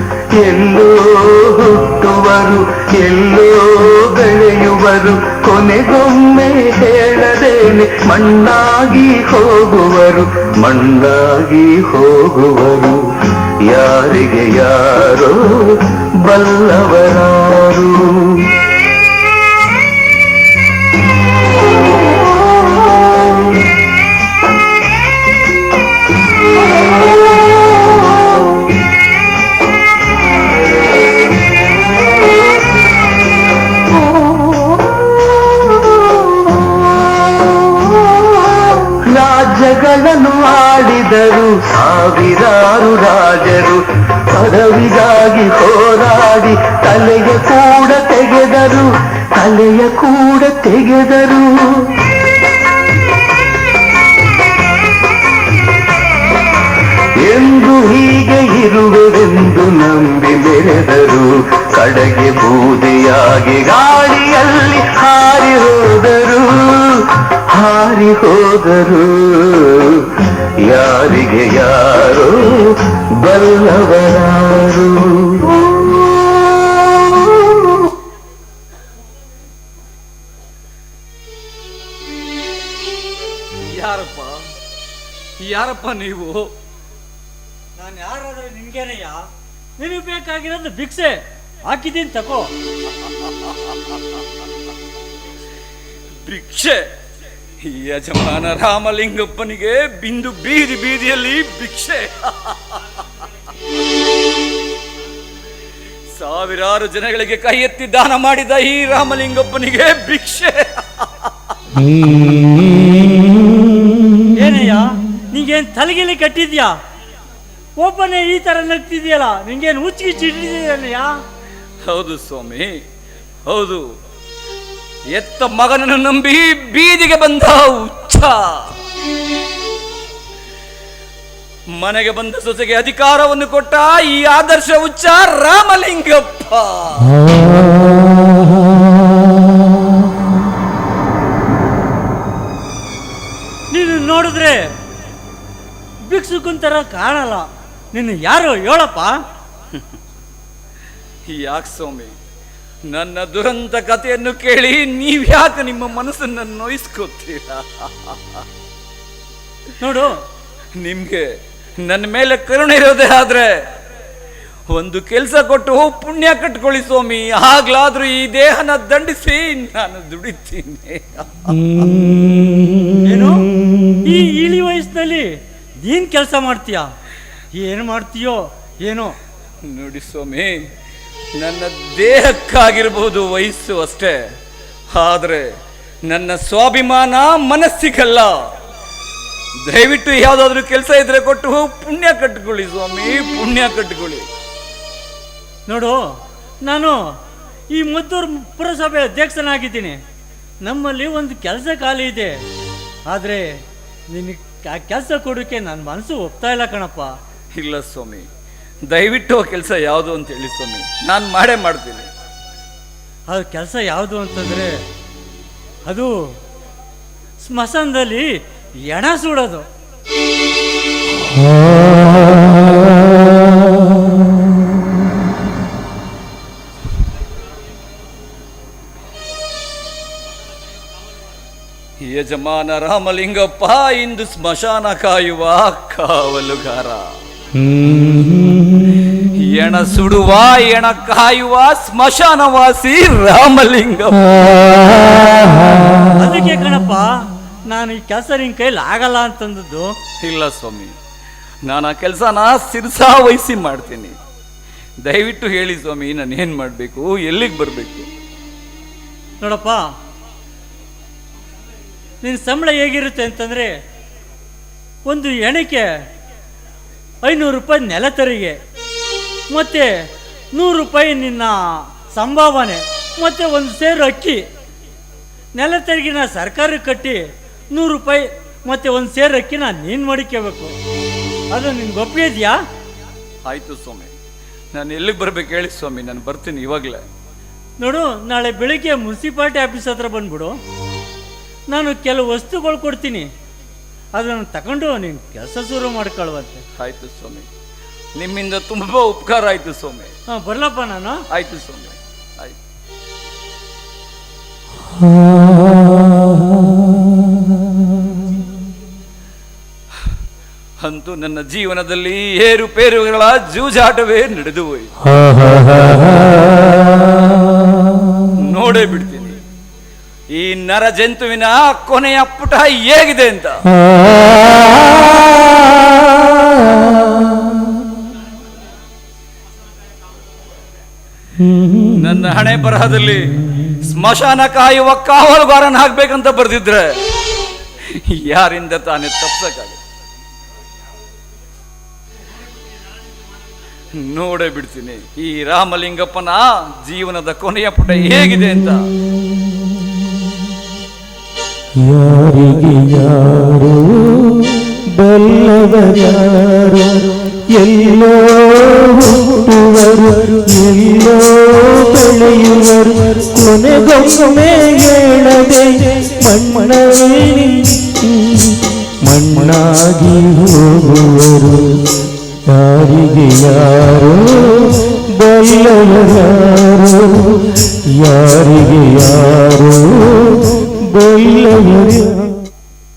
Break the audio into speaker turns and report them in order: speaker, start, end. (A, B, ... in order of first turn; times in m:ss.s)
0:00.4-0:13.1 A
0:13.7-0:18.5 A
0:38.9-0:51.9 A
0:57.2-1:15.5 A
1:23.7-1:24.5 B
1:25.4-1:26.5 B
1:27.8-1:29.2 C
1:29.8-1:32.5 C
1:36.2-1:36.9 B
1:37.6-1:42.8 B
1:46.2-1:51.9 B
1:54.4-1:56.7 C
1:57.8-2:01.1 C
2:01.9-2:02.8 B
2:03.5-2:03.9 B
2:05.1-2:08.8 B
2:11.8-2:17.3 B
2:23.7-2:24.7 C
2:26.1-2:29.2 C
2:31.3-2:32.2 B
2:32.9-2:38.4 B
2:39.8-2:40.2 C
2:40.8-2:43.7 B
2:44.7-2:51.9 B
2:53.0-2:53.5 C
2:54.0-2:56.8 C
2:57.5-2:59.2 C
2:59.6-3:00.6 B
3:01.4-3:04.3 B
3:04.9-3:05.5 B
3:06.1-3:08.5 B
3:09.6-3:14.3 B
3:15.7-3:16.0 C
3:16.6-3:17.0 C
3:17.7-3:20.0 C
3:20.6-3:22.4 C
3:23.1-3:23.6 C
3:24.1-3:27.1 C
3:27.5-3:28.3 B
3:28.9-3:32.1 B
3:33.3-3:34.8 C
3:35.9-3:36.4 C
3:37.4-3:39.7 C
3:52.0-3:57.2 B
3:57.7-4:05.0 B
4:06.2-4:07.1 C
4:07.7-4:09.9 C
4:10.2-4:10.9 B
4:11.7-4:14.2 B
4:15.0-4:18.1 B
4:19.4-4:19.8 C
4:22.2-4:23.8 C
4:25.1-4:25.9 C
4:27.2-4:28.6 C
4:29.5-4:34.4 C
4:35.6-4:40.8 C
4:41.5-4:42.6 C
4:43.5-4:44.1 B
4:44.7-4:47.0 B
4:47.8-4:50.6 C
4:51.7-4:53.3 C
4:54.2-4:56.6 C
4:56.8-4:57.5 B
4:58.2-5:00.1 B
5:00.3-5:01.2 C
5:01.3-5:02.6 B
5:10.8-5:15.0 B
5:15.8-5:16.1 B
5:18.4-5:19.4 B
5:20.3-5:23.7 B
5:31.9-5:37.2 B
5:37.9-5:39.8 B
5:44.0-5:49.0 B
5:51.8-6:22.4 D